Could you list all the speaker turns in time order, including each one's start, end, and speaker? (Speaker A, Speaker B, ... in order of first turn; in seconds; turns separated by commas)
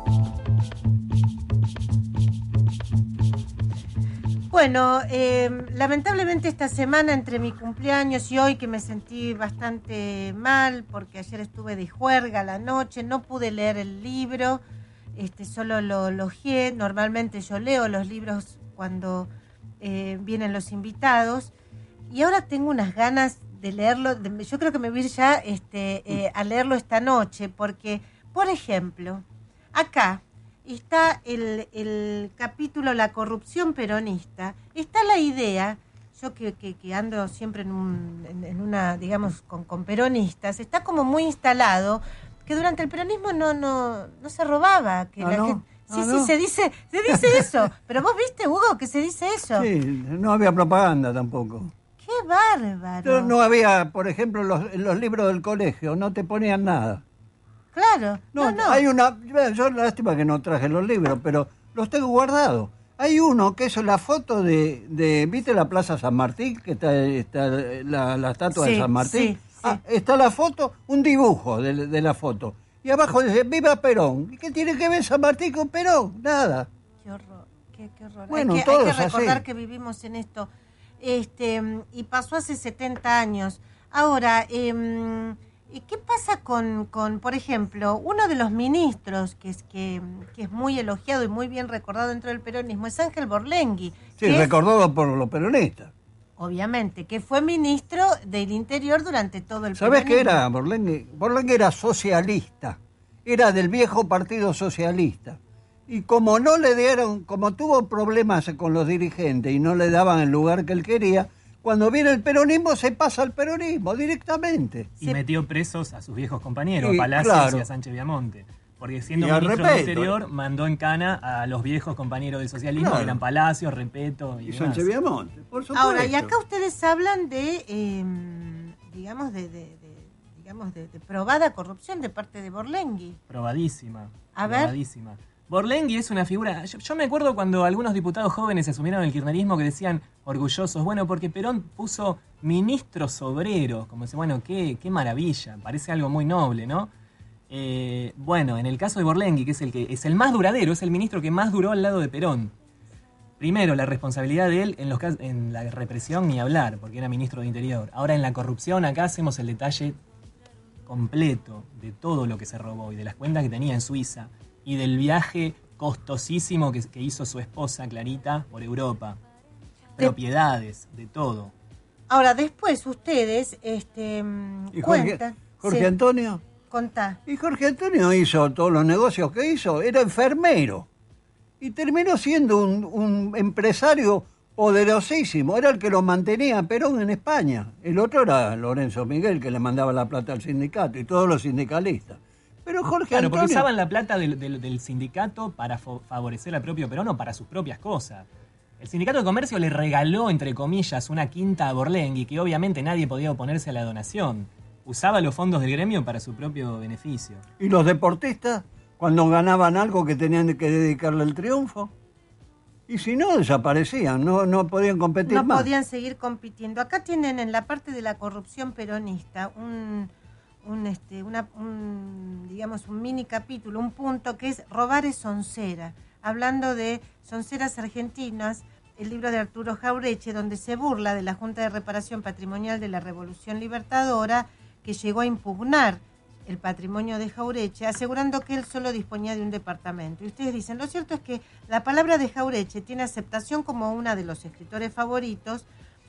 Speaker A: 4.5-14.6, Speaker A: 15.2-19.3, Speaker A: 19.8-21.5, Speaker A: 22.1-49.7, Speaker B: 45.2-46.3, Speaker B: 47.1-47.5, Speaker B: 49.6-51.7, Speaker A: 52.0-53.3, Speaker B: 53.0-57.0, Speaker A: 57.7-58.8, Speaker B: 58.4-76.7, Speaker A: 68.5-69.8, Speaker A: 77.0-80.5, Speaker B: 78.3-79.4, Speaker A: 81.0-94.5, Speaker B: 94.2-95.9, Speaker A: 96.4-100.4, Speaker B: 99.8-115.2, Speaker C: 115.0-124.9, Speaker B: 116.8-117.7, Speaker B: 119.2-120.1, Speaker B: 122.8-123.2, Speaker B: 124.5-126.3, Speaker A: 125.7-133.2, Speaker C: 133.3-146.9, Speaker A: 134.3-134.8, Speaker C: 147.5-152.5, Speaker C: 153.4-160.0, Speaker C: 160.9-169.2, Speaker C: 170.0-171.5, Speaker A: 172.1-175.9, Speaker B: 174.8-176.4, Speaker A: 176.7-177.2, Speaker B: 177.3-180.9, Speaker B: 181.6-193.7, Speaker C: 193.1-198.3, Speaker C: 198.8-207.4, Speaker B: 207.6-211.9, Speaker B: 212.9-215.7, Speaker A: 215.3-220.1, Speaker A: 220.6-245.7